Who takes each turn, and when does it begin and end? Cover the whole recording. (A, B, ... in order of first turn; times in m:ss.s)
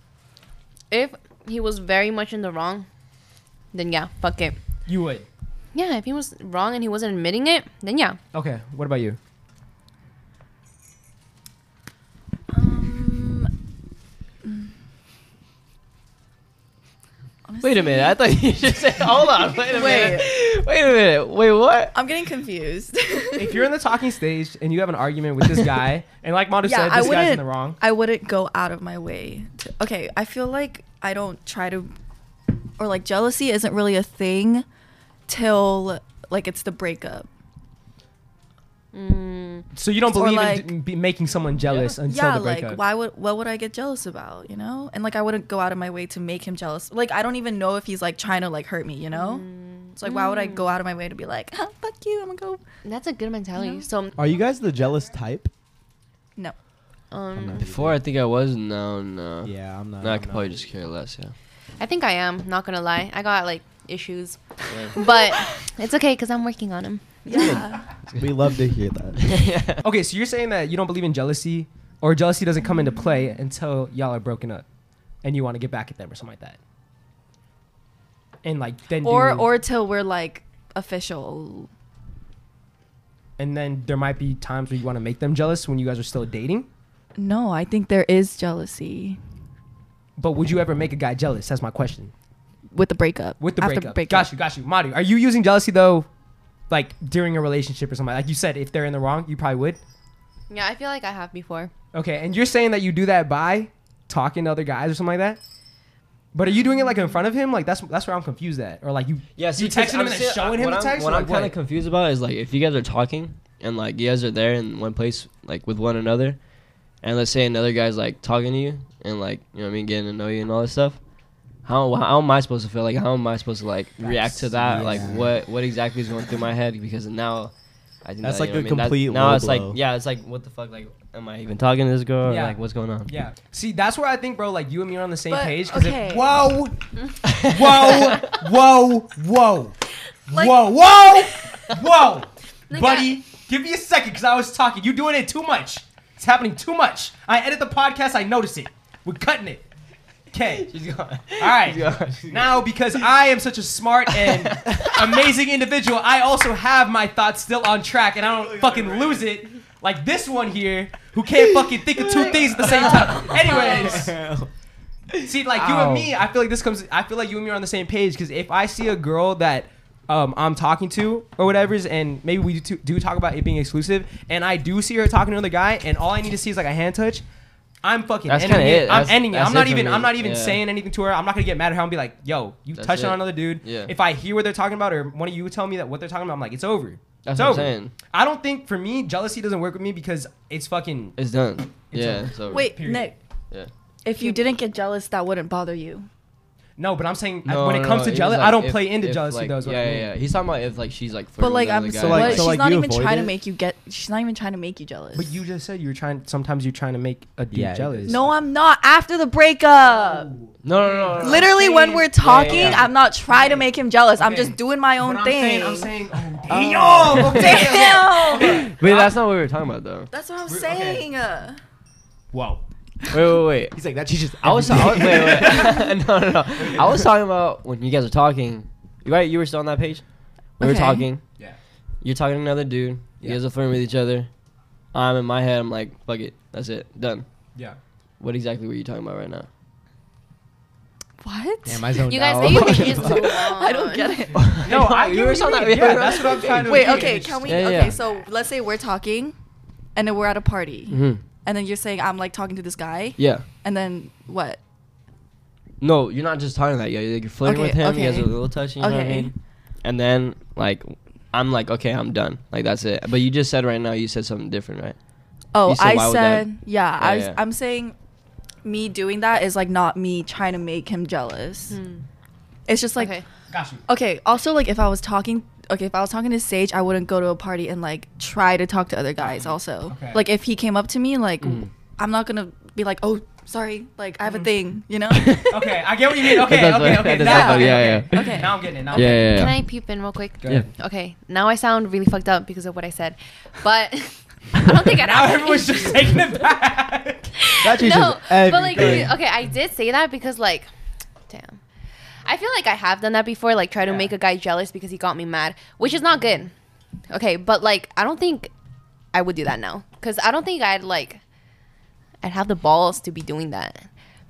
0:00.9-0:02.9 A
0:03.7-0:04.6 A
0:04.9-0:05.3 B
0:05.7-0:08.2 A
0:08.3-0:09.2 B
0:12.5-0:13.5 C
0:17.5-0:18.2 C
0:17.6-0:21.9 D
0:19.7-0:20.3 C
0:21.9-0:23.7 C
0:23.4-0:27.8 B
0:26.6-0:31.9 C
0:32.8-0:34.6 C
0:35.3-0:37.3 C
0:38.9-0:39.7 A
0:39.7-0:42.8 B
0:40.1-0:40.7 C
0:41.6-0:42.0 D
0:42.1-0:52.6 C
0:49.1-0:50.7 A
0:52.8-0:54.3 A
0:53.6-0:53.9 C
0:54.2-0:55.5 E
0:57.1-0:57.7 A
0:57.3-0:58.0 E
0:57.6-1:01.3 D
0:59.4-1:00.5 E
1:01.8-1:04.4 A
1:04.7-1:05.0 D
1:04.9-1:07.6 A
1:07.2-1:07.8 C
1:07.3-1:09.3 E
1:09.2-1:09.8 D
1:09.8-1:14.6 B
1:15.2-1:16.6 B
1:18.4-1:19.5 B
1:19.0-1:21.7 C
1:23.4-1:26.7 B
1:27.2-1:29.2 C
1:30.2-1:32.1 B
1:32.7-1:34.3 C
1:33.4-1:36.1 B
1:36.7-1:39.8 B
1:40.5-1:41.7 A
1:41.9-1:45.4 B
1:46.3-1:51.6 B
1:49.4-1:56.4 D
1:57.0-2:01.0 D
2:01.6-2:07.5 D
2:04.0-2:04.4 B
2:04.6-2:05.3 E
2:08.0-2:13.1 D
2:08.2-2:09.8 E
2:12.2-2:16.7 B
2:15.3-2:16.3 C
2:17.3-2:18.1 D
2:17.4-2:19.7 B
2:20.3-2:29.6 B
2:22.7-2:23.2 A
2:30.3-2:30.7 B
2:30.4-2:32.5 D
2:31.4-2:44.1 B
2:34.1-2:35.0 D
2:38.2-2:39.3 E
2:42.0-2:44.5 E
2:45.2-2:57.2 B
2:45.5-2:46.1 D
2:57.8-3:11.2 B
2:58.3-3:00.6 D
3:02.8-3:03.9 D
3:07.2-3:08.0 D
3:11.2-3:12.8 D
3:11.8-3:13.1 B
3:12.5-3:13.2 C
3:14.0-3:16.1 C
3:16.8-3:20.1 B
3:17.4-3:22.5 D
3:21.4-3:25.4 C
3:22.0-3:23.4 E
3:25.1-3:28.4 B
3:27.5-3:28.2 E
3:28.1-3:30.3 C
3:29.7-3:39.2 B
3:30.6-3:32.9 D
3:31.2-3:35.9 C
3:36.8-3:40.1 D
3:37.1-3:38.7 C
3:40.1-3:41.6 C
3:40.5-3:41.1 B
3:42.3-3:42.6 B
3:43.1-3:43.8 D
3:43.7-3:45.7 E
3:44.4-3:50.0 D
3:44.8-3:45.7 B
3:46.6-3:47.0 B
3:50.6-3:51.2 D
3:50.6-3:51.1 C
3:52.0-3:54.3 D
3:54.9-3:57.2 D
3:58.2-3:59.5 D
4:01.2-4:04.6 C
4:01.6-4:03.5 E
4:02.1-4:04.2 A
4:04.3-4:08.0 D
4:04.6-4:07.8 B
4:06.0-4:09.4 C
4:09.9-4:14.6 C
4:10.9-4:11.2 D
4:13.2-4:13.4 D
4:15.8-4:25.0 D
4:17.4-4:19.3 C
4:25.5-4:27.9 C
4:25.6-4:27.4 D
4:28.6-4:31.8 C
4:31.7-4:32.0 A
4:32.7-4:33.2 C
4:33.0-4:33.2 A
4:33.5-4:33.8 B
4:33.9-4:45.3 C
4:39.2-4:40.2 B
4:41.4-4:41.7 D
4:44.2-4:44.5 B
4:45.1-4:49.7 D
4:45.5-4:49.5 B
4:47.2-4:48.6 C
4:49.0-4:56.3 A
4:50.4-4:50.7 B
4:54.9-4:57.3 B
4:57.4-5:00.7 A
4:57.6-4:59.2 E
4:58.8-4:59.0 B
5:01.3-5:01.6 A
5:02.2-5:06.5 A
5:03.8-5:04.1 B
5:07.1-5:08.5 A
5:09.1-5:11.2 A
5:12.2-5:13.9 A